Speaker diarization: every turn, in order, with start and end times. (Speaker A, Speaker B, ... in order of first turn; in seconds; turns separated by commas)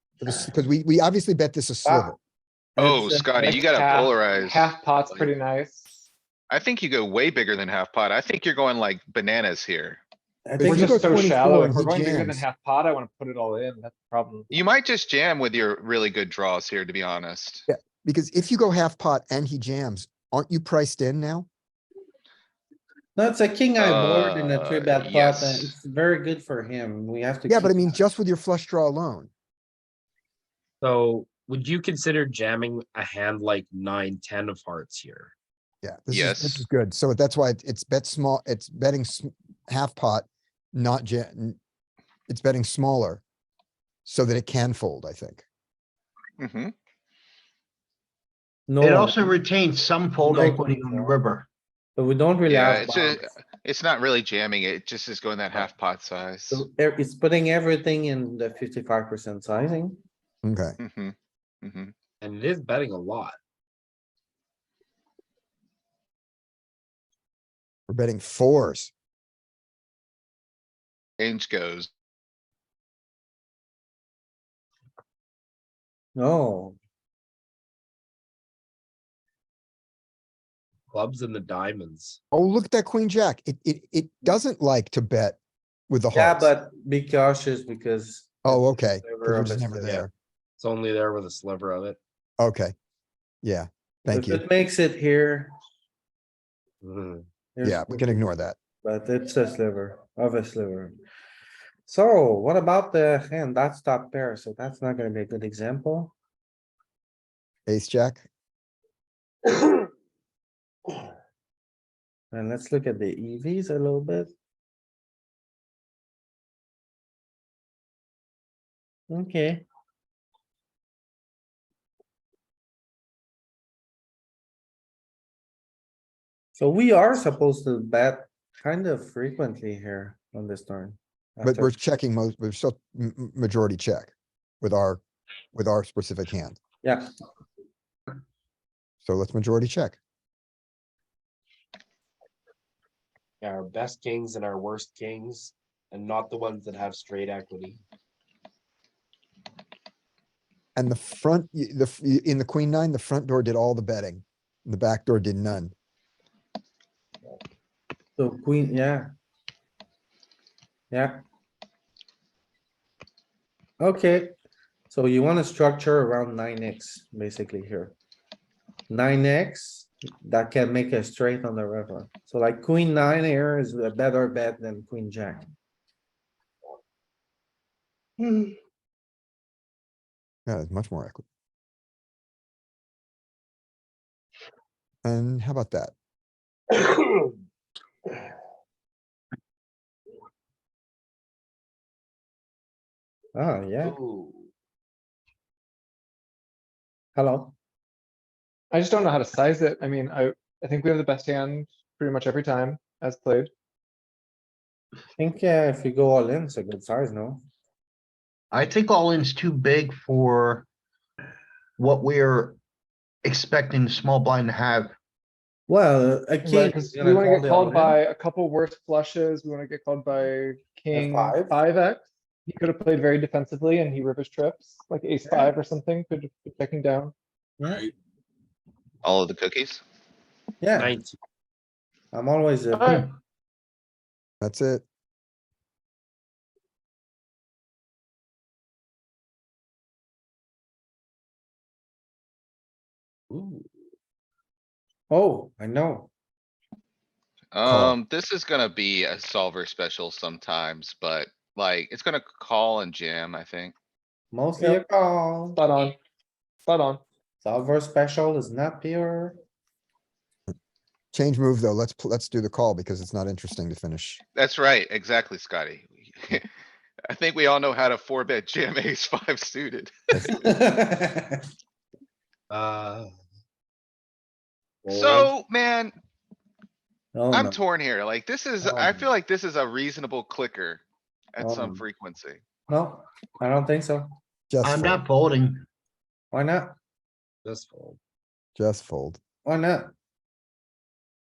Speaker A: 0.2-2.2, Speaker B: 1.8-2.1, Speaker B: 2.8-3.3, Speaker C: 2.8-5.3, Speaker D: 3.4-6.0, Speaker C: 6.5-10.0, Speaker B: 10.4-11.3, Speaker A: 10.6-12.4, Speaker D: 10.6-14.5, Speaker C: 14.5-17.6, Speaker A: 17.7-21.5, Speaker B: 23.1-28.0, Speaker C: 23.8-25.7, Speaker A: 27.5-29.3, Speaker E: 30.8-35.3, Speaker A: 35.8-41.6, Speaker C: 36.1-36.6, Speaker A: 42.3-43.2, Speaker A: 44.0-45.4, Speaker C: 46.4-46.7, Speaker B: 48.7-49.4, Speaker F: 48.8-51.5, Speaker B: 50.2-51.1, Speaker B: 52.0-53.3, Speaker C: 52.5-56.6, Speaker B: 56.5-60.0, Speaker A: 60.4-60.8, Speaker C: 60.8-61.9, Speaker E: 62.2-63.4, Speaker A: 67.9-68.9, Speaker C: 71.2-71.9, Speaker B: 76.1-76.8, Speaker E: 80.9-82.2, Speaker A: 82.3-85.4, Speaker A: 85.9-86.5, Speaker B: 86.1-88.4, Speaker A: 88.4-90.1, Speaker E: 88.5-89.3, Speaker B: 89.2-90.1, Speaker E: 90.6-92.0, Speaker A: 92.4-92.7, Speaker A: 93.4-94.4, Speaker B: 94.1-95.5, Speaker E: 96.8-97.2, Speaker B: 97.5-98.2, Speaker A: 97.6-98.6, Speaker B: 98.8-101.0, Speaker B: 101.9-106.1, Speaker A: 107.7-108.3, Speaker B: 112.3-114.3, Speaker B: 119.1-119.6, Speaker B: 126.5-131.7, Speaker A: 131.4-135.0, Speaker A: 135.5-136.6, Speaker B: 136.8-137.1, Speaker A: 139.0-140.0, Speaker E: 143.4-147.8, Speaker A: 150.7-155.7, Speaker B: 158.2-159.1, Speaker B: 160.9-161.2, Speaker B: 163.8-164.3, Speaker B: 164.9-167.9, Speaker B: 168.9-175.5, Speaker A: 180.4-181.2, Speaker A: 185.0-185.9, Speaker B: 193.3-194.0, Speaker E: 193.8-194.5, Speaker B: 197.1-197.5, Speaker D: 198.7-203.5, Speaker B: 205.2-207.4, Speaker F: 208.5-210.7, Speaker F: 211.8-212.6, Speaker F: 213.2-214.9, Speaker B: 215.7-218.0, Speaker D: 216.4-227.1, Speaker B: 220.9-221.5, Speaker B: 227.6-227.9, Speaker C: 229.0-229.8, Speaker B: 230.6-230.9, Speaker E: 230.7-231.2, Speaker B: 232.1-233.1, Speaker D: 232.8-233.0, Speaker A: 234.4-234.8, Speaker E: 243.3-243.6, Speaker B: 245.1-246.1, Speaker C: 247.5-253.7, Speaker A: 247.6-247.9, Speaker B: 254.3-255.6, Speaker D: 255.5-256.0, Speaker D: 256.6-257.0, Speaker B: 257.4-259.4, Speaker A: 261.1-264.2, Speaker C: 264.4-266.5, Speaker C: 267.1-270.2, Speaker B: 270.3-271.4, Speaker E: 272.5-273.1, Speaker E: 274.8-275.3, Speaker C: 274.9-275.9, Speaker B: 277.1-277.6, Speaker C: 277.3-280.8, Speaker B: 278.6-279.1, Speaker C: 281.3-282.4, Speaker B: 281.4-281.8, Speaker B: 282.7-284.1, Speaker A: 284.5-285.0, Speaker F: 284.6-285.6, Speaker B: 286.3-286.7, Speaker E: 287.4-288.0, Speaker A: 288.6-289.2, Speaker B: 289.4-289.9